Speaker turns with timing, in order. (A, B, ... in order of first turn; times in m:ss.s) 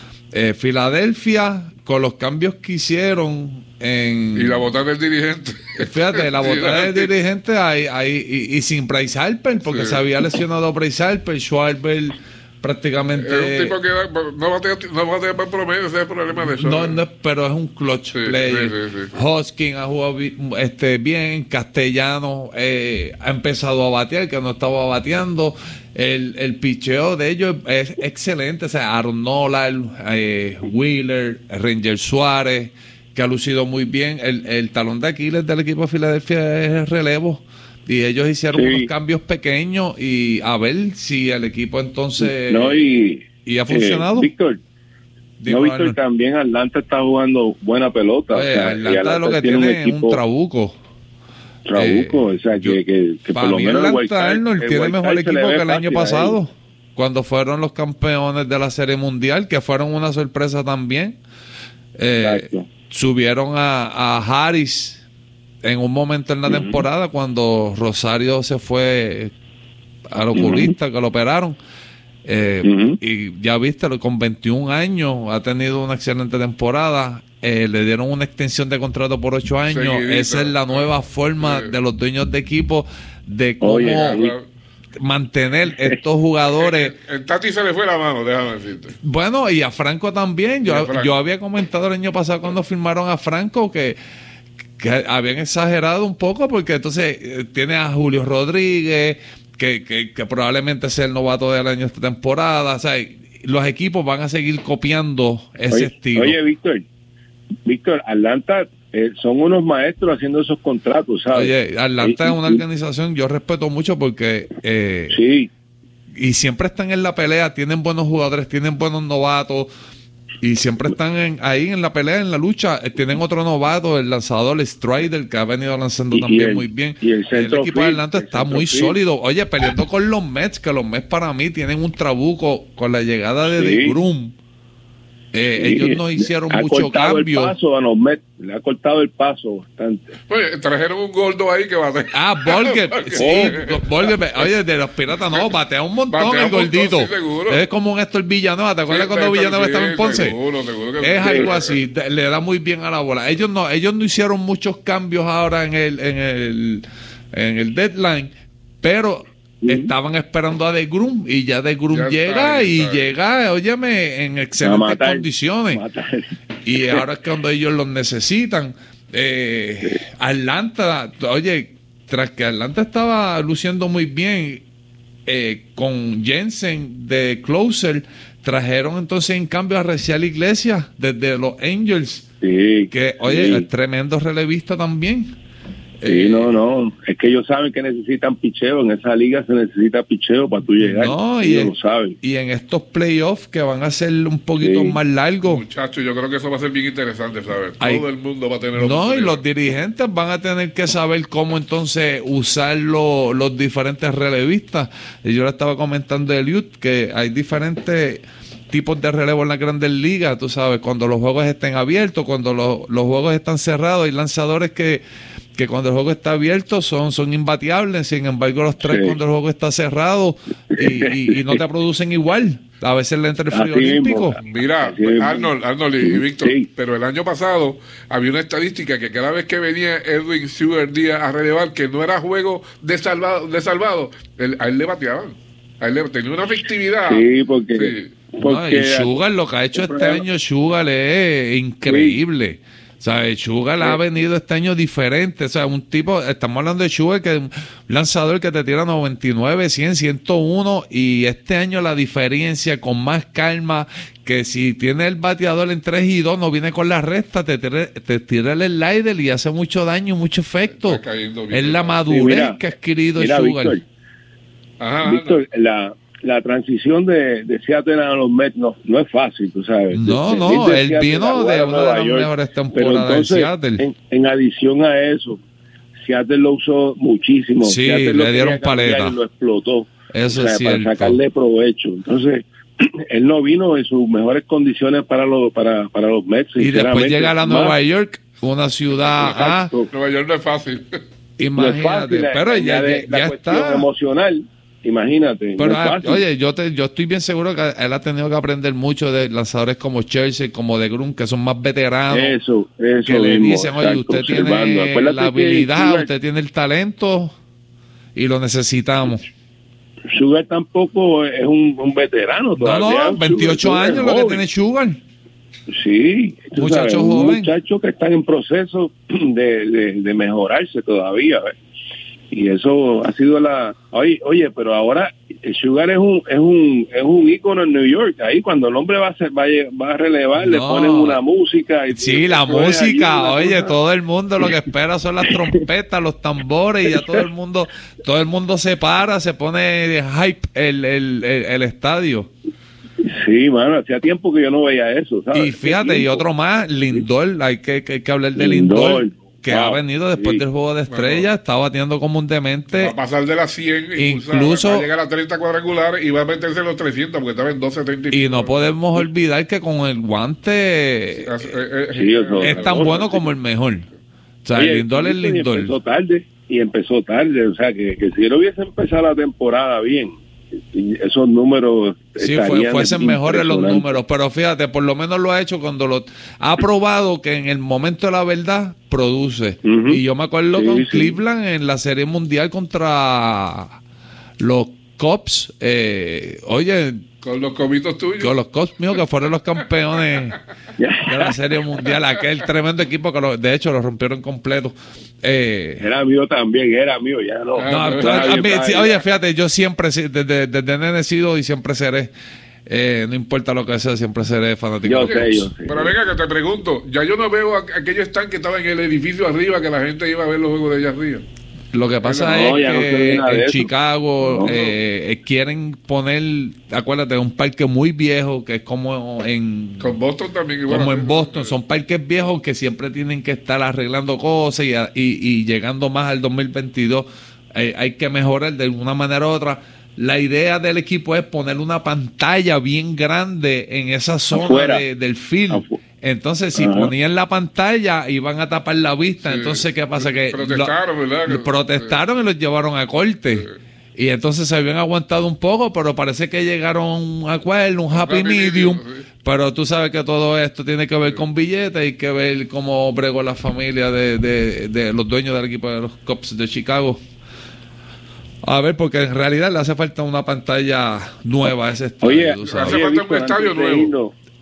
0:00.3-0:04.6 A
0:04.4-0:07.1 B
0:05.8-0:13.8 A
0:09.6-0:10.0 B
0:13.2-0:17.0 B
0:16.4-0:44.3 A
0:18.1-0:19.2 B
0:38.5-0:38.9 C
0:42.2-0:44.6 C
0:45.4-0:46.0 A
0:45.5-0:50.2 C
0:48.4-0:50.8 A
0:51.7-0:56.4 C
0:51.8-0:52.8 A
0:53.4-1:01.2 A
1:02.0-1:05.0 A
1:02.2-1:02.7 C
1:05.6-1:09.3 A
1:06.5-1:06.8 C
1:10.1-1:11.6 A
1:10.4-1:10.8 C
1:12.2-1:24.3 A
1:12.6-1:13.0 C
1:19.7-1:21.8 B
1:23.6-1:24.3 C
1:23.9-1:24.4 B
1:25.0-1:26.9 A
1:25.7-1:26.0 C
1:26.5-1:29.0 B
1:29.0-1:34.0 A
1:30.6-1:31.1 B
1:34.8-1:46.4 A
1:45.7-1:46.8 C
1:47.7-1:52.6 C
1:51.3-1:55.2 A
1:55.1-1:55.5 C
1:56.2-1:59.7 A
2:00.4-2:14.4 A
2:06.1-2:09.0 C
2:13.5-2:14.0 C
2:15.3-2:17.6 A
2:15.6-2:20.2 C
2:20.3-2:24.1 B
2:22.1-2:30.4 A
2:23.2-2:23.6 C
2:26.1-2:27.6 B
2:28.9-2:31.8 B
2:31.0-2:45.8 A
2:31.2-2:31.6 C
2:39.6-2:39.9 C
2:41.9-2:43.1 B
2:44.6-2:47.0 C
2:46.6-2:54.6 A
2:55.3-3:02.3 A
3:02.4-3:03.7 C
3:02.9-3:05.4 A
3:06.0-3:06.6 A
3:06.1-3:12.2 C
3:10.8-3:15.6 A
3:14.6-3:15.0 C
3:15.4-3:19.4 B
3:17.8-3:18.1 A
3:18.8-3:35.0 A
3:35.6-3:44.4 A
3:38.8-3:39.2 C
3:40.7-3:41.6 C
3:43.5-3:46.7 C
3:44.4-3:58.2 B
3:57.0-3:59.2 C
3:58.4-4:23.8 A
3:59.7-4:00.2 C
4:01.8-4:02.2 C
4:20.7-4:22.1 B
4:22.1-4:22.6 C
4:23.2-4:23.8 C
4:24.8-4:25.4 B
4:25.0-4:35.4 C
4:29.9-4:33.8 A
4:36.0-4:47.8 C
4:37.6-4:39.2 A
4:40.1-4:41.2 A
4:46.6-4:49.7 A
4:49.2-4:49.9 C
4:49.9-4:51.0 B
4:51.4-4:53.9 A
4:51.6-4:56.2 C
4:55.6-5:02.4 A
5:02.1-5:06.1 C
5:03.1-5:07.3 A
5:08.2-5:09.2 A
5:10.1-5:14.4 C
5:12.6-5:15.0 A
5:15.7-5:21.6 C
5:16.6-5:17.5 A
5:22.3-5:33.7 C
5:30.4-5:31.2 A
5:31.9-5:42.3 A
5:35.2-5:35.6 C
5:36.8-5:37.2 C
5:43.0-5:46.2 C
5:45.3-5:53.0 A
5:48.4-5:50.4 C
5:50.9-5:51.3 B
5:52.8-5:58.7 B
5:54.0-5:54.9 A
5:58.1-6:01.4 A
6:01.2-6:03.1 B
6:01.9-6:03.3 C
6:02.4-6:03.9 A
6:04.4-6:05.8 A
6:04.6-6:10.2 C
6:10.7-6:14.0 C
6:12.2-6:23.8 A
6:19.6-6:21.2 C
6:24.4-6:27.0 A
6:27.2-6:28.3 B
6:28.2-6:30.4 A
6:30.8-6:31.4 C
6:31.1-6:35.8 A
6:35.8-6:39.0 C
6:37.6-6:38.5 B
6:37.7-6:42.1 A
6:42.7-6:45.5 A
6:44.8-6:45.9 C
6:44.9-6:51.2 B
6:51.7-7:00.0 A
6:52.0-6:52.6 B
6:52.2-6:54.5 C
6:54.4-6:54.8 B
6:59.8-7:01.6 B
7:00.7-7:20.7 A
7:14.3-7:14.8 C
7:15.5-7:15.8 C
7:16.6-7:16.9 C
7:19.2-7:22.0 B
7:21.3-7:37.0 A
7:27.9-7:29.0 B
7:38.4-7:42.8 A
7:41.5-7:44.2 C
7:42.4-7:43.9 B